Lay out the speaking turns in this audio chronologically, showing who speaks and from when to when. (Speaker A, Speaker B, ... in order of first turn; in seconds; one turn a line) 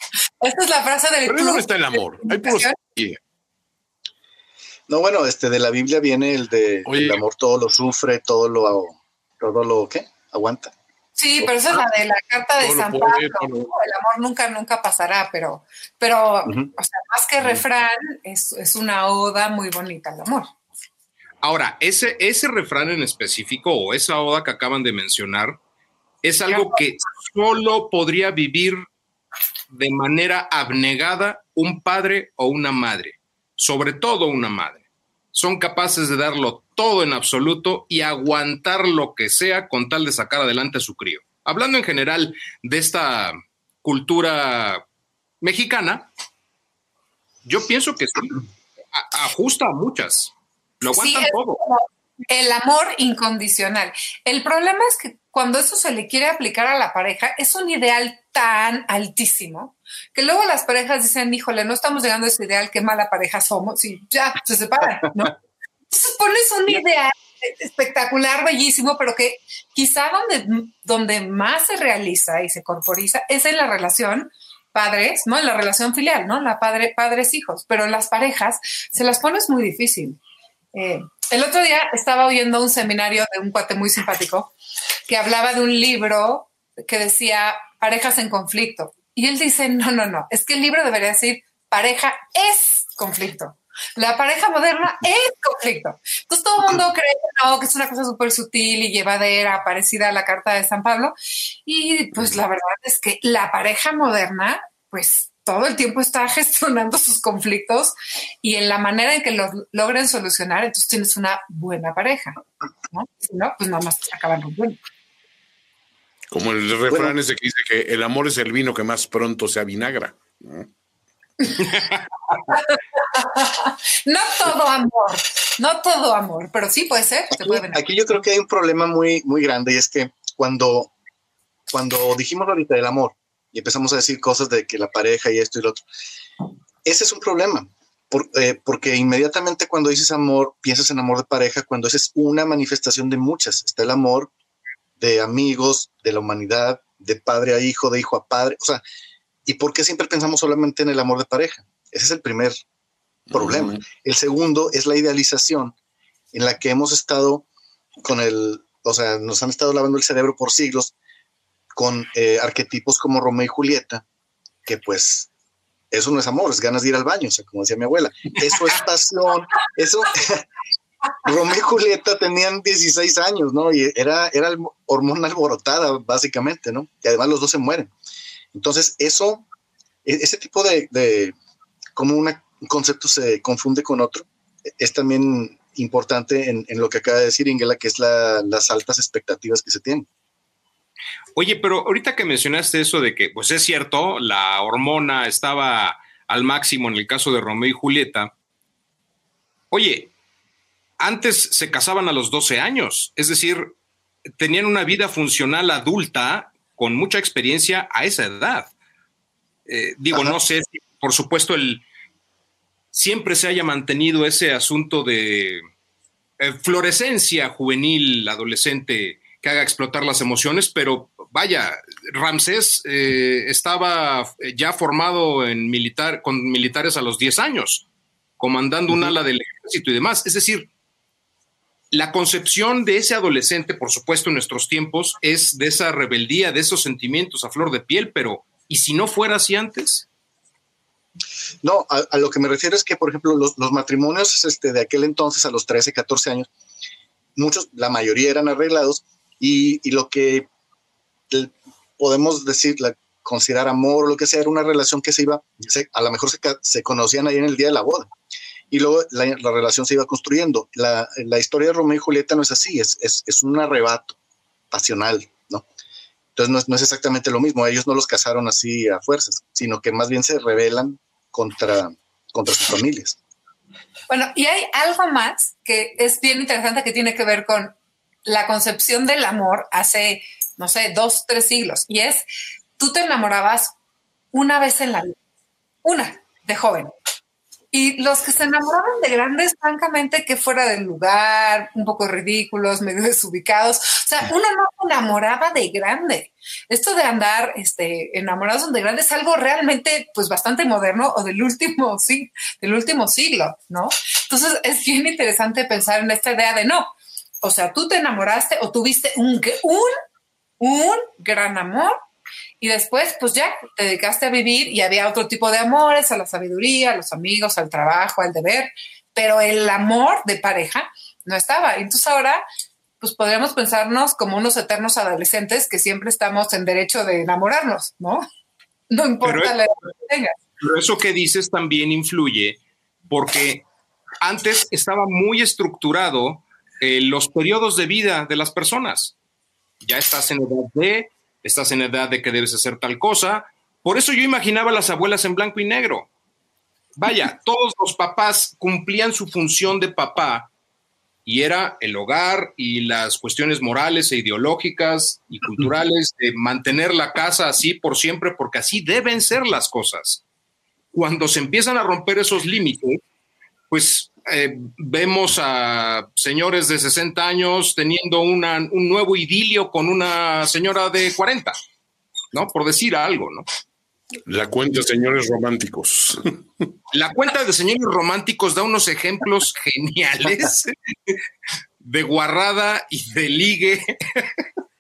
Speaker A: 0.4-2.7
Speaker B: 1.3-3.2
Speaker C: 4.9-10.7
Speaker B: 6.9-7.2
Speaker A: 11.2-20.5
Speaker B: 11.4-11.8
Speaker B: 12.6-13.7
Speaker D: 21.4-25.6
Speaker D: 26.2-28.9
Speaker D: 29.7-34.8
Speaker D: 35.3-44.8
Speaker D: 45.4-46.1
Speaker D: 47.5-48.4
Speaker D: 48.9-51.6
Speaker A: 50.9-65.3
Speaker A: 65.9-80.2
Speaker A: 80.7-84.5
Speaker A: 85.1-112.4
Speaker A: 112.9-114.8
Speaker B: 116.3-120.7
Speaker C: 116.9-117.1
Speaker D: 121.6-122.0
Speaker A: 122.5-127.8
Speaker C: 127.3-130.9
Speaker C: 131.7-135.8
Speaker C: 136.8-144.3
Speaker C: 145.0-148.8
Speaker C: 149.5-152.6
Speaker B: 153.3-153.8
Speaker C: 153.3-155.7
Speaker C: 156.3-157.4
Speaker C: 158.0-160.9
Speaker C: 161.8-164.0
Speaker C: 164.7-165.3
Speaker C: 165.9-170.4
Speaker C: 171.2-177.9
Speaker C: 178.5-179.4
Speaker C: 180.1-181.3
Speaker C: 182.0-190.1
Speaker D: 191.4-198.3
Speaker D: 199.7-200.1
Speaker D: 201.0-203.7
Speaker D: 204.4-208.7
Speaker D: 209.7-211.8
Speaker D: 212.9-215.6
Speaker D: 216.4-227.8
Speaker D: 228.4-230.7
Speaker D: 231.9-240.1
Speaker C: 241.6-246.5
Speaker C: 247.4-250.5
Speaker C: 251.3-258.1
Speaker C: 258.7-264.2
Speaker C: 264.7-265.6
Speaker C: 266.4-273.2
Speaker A: 274.1-282.2
Speaker A: 282.8-283.7
Speaker A: 284.3-285.2
Speaker A: 285.8-286.9
Speaker A: 287.7-306.9
Speaker A: 307.4-309.9
Speaker A: 310.6-311.9
Speaker A: 312.6-322.4
Speaker A: 323.0-328.2
Speaker A: 328.9-330.3
Speaker D: 329.2-329.6
Speaker D: 330.6-332.6
Speaker D: 333.1-333.6
Speaker D: 334.2-339.1
Speaker D: 339.8-346.1
Speaker D: 347.0-350.5
Speaker D: 351.3-360.2
Speaker D: 360.9-363.0
Speaker D: 363.7-371.6
Speaker D: 372.3-373.5
Speaker B: 374.3-376.4
Speaker D: 376.9-381.2
Speaker D: 381.8-384.4